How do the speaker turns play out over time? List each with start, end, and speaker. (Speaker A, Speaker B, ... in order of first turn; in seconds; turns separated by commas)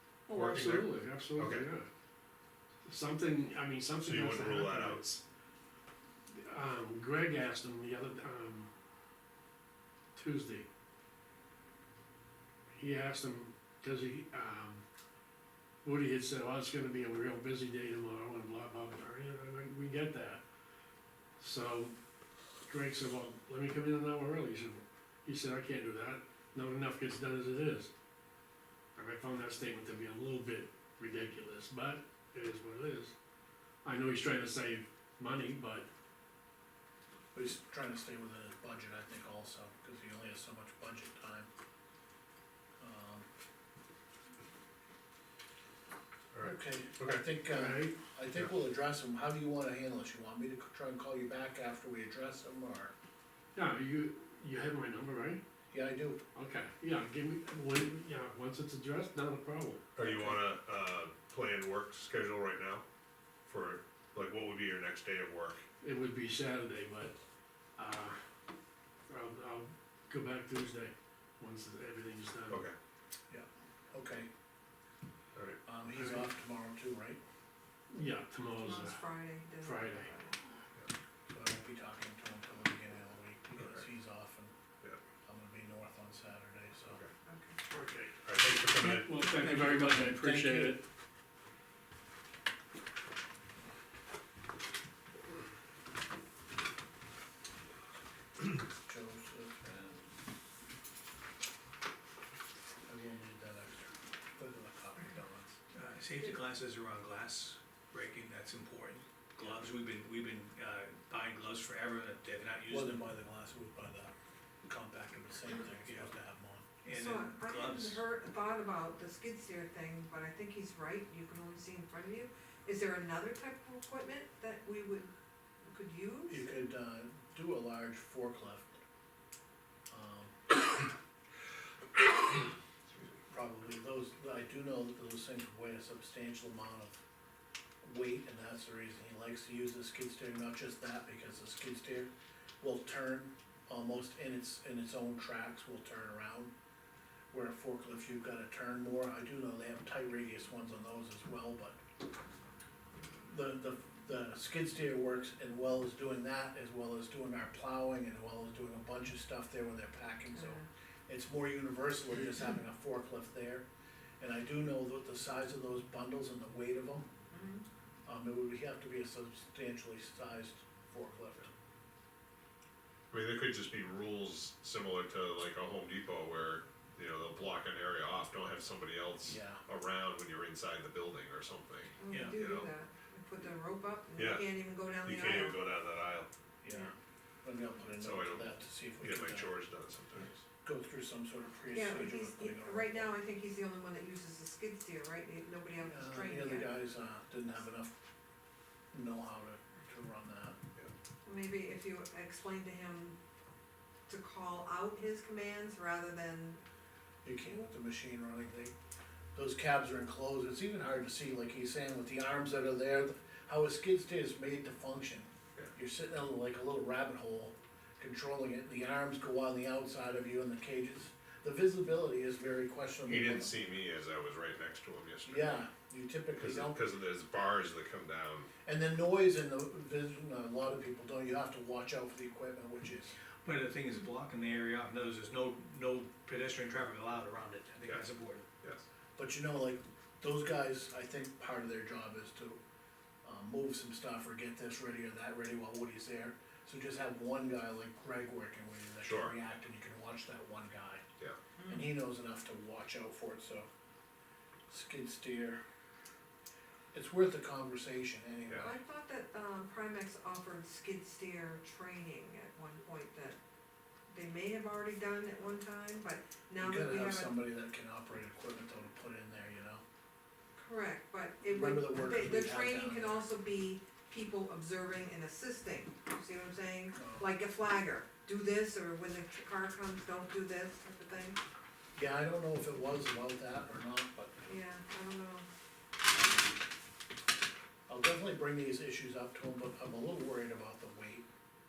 Speaker A: 0.3-1.9, Speaker B: 0.3-1.7, Speaker A: 2.9-5.0, Speaker B: 4.0-5.2, Speaker A: 6.4-8.7, Speaker A: 10.2-10.7, Speaker A: 12.8-14.8, Speaker A: 15.8-20.4, Speaker A: 21.4-21.9, Speaker A: 22.7-27.9, Speaker A: 29.0-33.1, Speaker A: 33.9-35.9, Speaker C: 37.3-41.5, Speaker C: 42.8-43.3, Speaker B: 46.3-47.2, Speaker C: 46.4-52.9, Speaker A: 47.5-48.0, Speaker A: 53.6-55.4, Speaker C: 55.7-56.2, Speaker A: 56.4-60.2, Speaker B: 60.0-62.8, Speaker B: 63.5-65.7, Speaker A: 65.8-67.2, Speaker A: 67.8-68.2, Speaker A: 69.1-72.6, Speaker C: 73.3-74.3, Speaker C: 75.7-77.2, Speaker A: 77.9-79.1, Speaker D: 78.6-80.4, Speaker A: 79.6-80.1, Speaker C: 81.3-84.5, Speaker B: 83.6-83.9, Speaker C: 85.2-87.0, Speaker D: 87.3-87.6, Speaker A: 87.7-88.2, Speaker B: 88.2-89.1, Speaker E: 88.8-90.8, Speaker A: 88.8-90.8, Speaker C: 98.8-99.7, Speaker E: 99.7-100.0, Speaker C: 102.9-105.6, Speaker E: 105.7-113.1, Speaker C: 112.7-114.1, Speaker C: 114.7-116.7, Speaker E: 115.8-116.1, Speaker E: 116.8-118.0, Speaker D: 116.9-125.1, Speaker D: 125.6-126.5, Speaker C: 126.3-128.7, Speaker C: 129.9-130.4, Speaker C: 133.3-137.0, Speaker C: 137.8-146.5, Speaker C: 147.3-151.8, Speaker C: 153.3-163.6, Speaker D: 160.3-160.7, Speaker C: 164.2-167.1, Speaker D: 167.3-167.7, Speaker C: 168.1-171.5, Speaker B: 173.1-182.7, Speaker C: 179.3-179.6, Speaker D: 182.0-185.6, Speaker E: 182.1-182.4, Speaker B: 184.2-186.3, Speaker C: 186.6-189.6, Speaker B: 187.9-190.4, Speaker C: 190.6-193.1, Speaker D: 191.7-196.7, Speaker C: 195.8-198.0, Speaker C: 198.9-200.6, Speaker D: 201.2-203.2, Speaker D: 204.1-206.6, Speaker C: 207.2-208.7, Speaker C: 209.3-223.5, Speaker B: 223.1-225.6, Speaker C: 225.2-226.8, Speaker B: 226.4-228.5, Speaker C: 228.7-233.1, Speaker E: 233.4-238.5, Speaker C: 239.2-242.6, Speaker C: 243.2-251.1, Speaker B: 249.0-249.3, Speaker D: 251.6-251.9, Speaker C: 251.7-253.7, Speaker C: 254.7-255.6, Speaker C: 256.9-258.8, Speaker D: 258.6-263.4, Speaker D: 264.1-267.4, Speaker C: 266.6-269.8, Speaker D: 270.6-281.4, Speaker C: 271.5-273.2, Speaker C: 277.0-277.3, Speaker C: 282.0-284.5, Speaker D: 284.5-285.5, Speaker C: 287.9-291.3